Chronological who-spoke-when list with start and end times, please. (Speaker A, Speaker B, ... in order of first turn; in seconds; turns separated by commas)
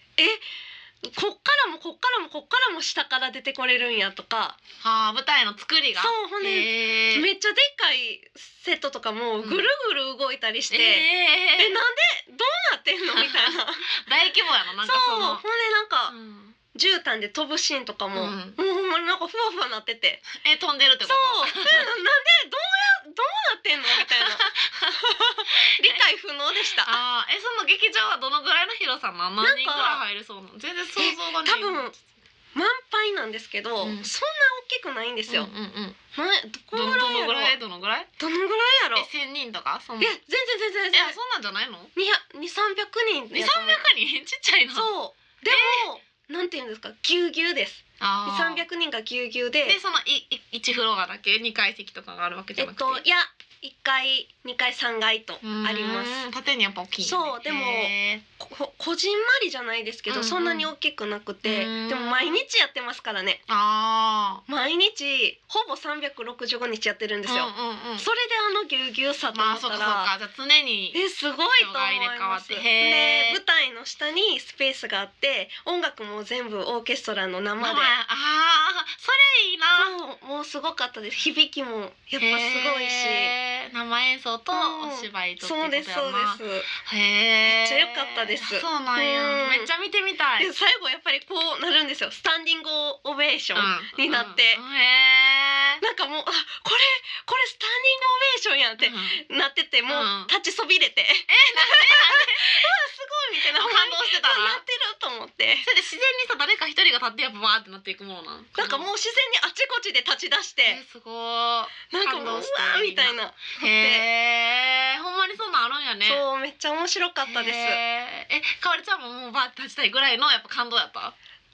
Speaker A: 0.2-0.4, Speaker A: 1.0-4.6, Speaker B: 4.8-7.3, Speaker A: 6.0-11.1, Speaker B: 9.4-9.7, Speaker B: 10.7-11.8, Speaker A: 11.6-13.9, Speaker B: 13.1-15.4, Speaker A: 14.8-16.1, Speaker B: 16.1-16.6, Speaker A: 16.7-20.2, Speaker B: 18.1-18.6, Speaker B: 20.3-21.9, Speaker A: 21.0-26.9, Speaker B: 23.9-24.9, Speaker B: 25.5-26.0, Speaker B: 26.7-31.9, Speaker A: 29.4-30.0, Speaker A: 30.9-31.9, Speaker A: 32.5-35.5, Speaker B: 33.8-34.1, Speaker B: 35.3-36.0, Speaker A: 36.1-37.5, Speaker B: 36.7-38.1, Speaker A: 38.2-39.1, Speaker B: 38.9-40.1, Speaker A: 40.0-41.1, Speaker B: 40.9-41.9, Speaker A: 41.9-43.9, Speaker B: 43.3-44.9, Speaker A: 44.7-49.8, Speaker B: 45.5-45.9, Speaker B: 48.0-48.6, Speaker B: 49.6-53.0, Speaker A: 52.6-56.2, Speaker B: 55.4-58.2, Speaker A: 57.0-63.4, Speaker B: 60.1-60.7, Speaker B: 61.4-62.4, Speaker B: 63.5-64.4, Speaker A: 64.5-70.1, Speaker B: 67.2-68.1, Speaker B: 69.3-71.0, Speaker A: 70.9-77.9, Speaker B: 71.6-73.4, Speaker B: 77.6-79.9, Speaker A: 79.7-83.3, Speaker B: 82.2-90.5, Speaker A: 84.5-86.7, Speaker A: 87.4-89.7, Speaker A: 90.4-94.6, Speaker B: 93.5-95.8, Speaker A: 95.8-105.7, Speaker B: 98.8-99.2, Speaker B: 99.9-100.3, Speaker B: 101.3-102.7, Speaker B: 103.4-104.6, Speaker B: 105.6-108.9, Speaker A: 108.5-110.8, Speaker B: 110.6-116.2, Speaker A: 111.9-114.0, Speaker A: 116.0-117.8, Speaker B: 117.2-121.1